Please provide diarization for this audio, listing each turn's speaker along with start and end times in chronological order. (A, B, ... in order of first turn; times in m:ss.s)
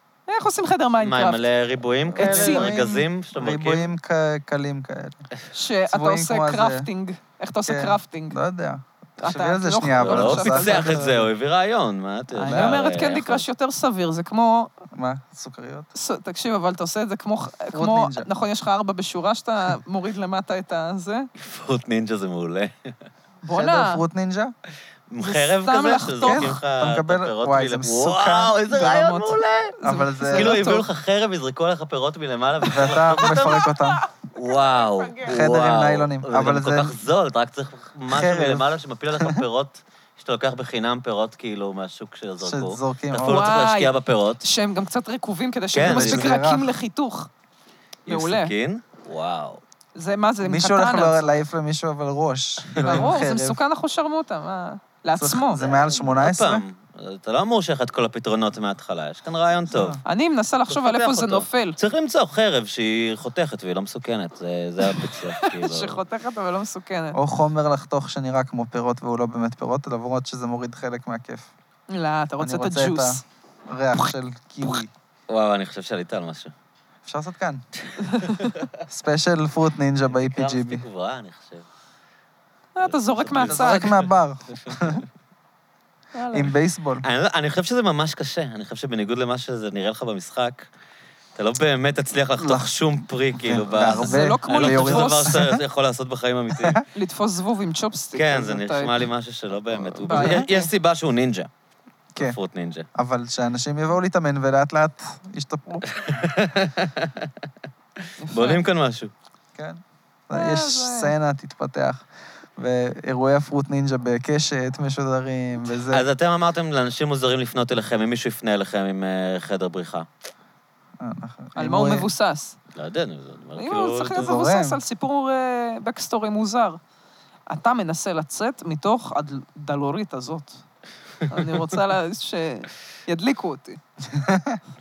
0:00.3-0:01.4 A
0:01.0-0:03.8 B
0:02.1-0:05.2 C
0:02.2-0:02.7 A
0:05.5-0:08.4 A
0:05.9-0:06.9 C
0:07.6-0:11.3 C
0:09.2-0:11.0 A
0:10.0-0:13.4 B
0:12.4-0:12.8 C
0:12.4-0:14.7 A
0:14.9-0:15.9 C
0:15.9-0:21.3 A
0:17.7-0:18.3 C
0:21.4-0:22.9 B
0:23.4-0:24.0 A
0:23.5-0:24.5 C
0:25.1-0:29.8 B
0:25.2-0:26.5 A
0:26.2-0:28.5 C
0:28.7-0:30.8 A
0:29.8-0:30.5 C
0:30.3-0:33.7 B
0:32.7-0:34.0 C
0:33.2-0:35.4 A
0:34.3-0:44.4 B
0:35.3-0:36.9 C
0:38.1-0:39.4 C
0:42.4-0:43.5 C
0:43.2-0:47.3 A
0:45.7-0:46.4 B
0:45.8-0:46.7 C
0:48.0-0:49.6 B
0:48.1-0:48.5 A
0:50.0-0:51.2 A
0:50.4-0:53.6 C
0:52.7-0:53.1 B
0:52.8-0:55.6 A
0:55.2-0:56.6 C
0:55.6-1:00.0 B
0:59.7-1:00.0 C
1:00.0-1:01.8 A
1:00.7-1:06.0 B
1:04.8-1:07.2 A
1:07.1-1:11.5 C
1:11.9-1:13.2 A
1:12.4-1:14.9 C
1:15.3-1:16.5 B
1:17.0-1:17.6 C
1:17.8-1:18.7 B
1:18.0-1:18.6 A
1:18.9-1:20.8 C
1:20.1-1:21.6 B
1:22.8-1:23.9 A
1:22.8-1:25.0 B
1:23.4-1:25.0 C
1:26.1-1:26.5 A
1:26.3-1:27.0 C
1:27.0-1:30.7 B
1:31.3-1:36.8 B
1:32.4-1:35.6 C
1:34.0-1:35.4 A
1:36.5-1:36.8 C
1:36.9-1:39.0 A
1:38.1-1:41.5 B
1:40.0-1:40.7 A
1:40.1-1:40.5 C
1:42.2-1:42.9 B
1:42.9-1:45.8 C
1:45.9-1:47.3 B
1:48.2-1:48.6 A
1:48.3-1:49.1 B
1:49.6-1:52.0 C
1:50.3-1:51.1 A
1:52.6-1:56.0 C
1:55.9-2:00.1 B
2:01.0-2:02.1 C
2:01.6-2:02.6 A
2:02.7-2:04.3 B
2:03.6-2:06.8 A
2:04.2-2:04.8 C
2:07.5-2:10.6 A
2:11.3-2:13.8 A
2:11.3-2:11.6 B
2:14.0-2:14.6 C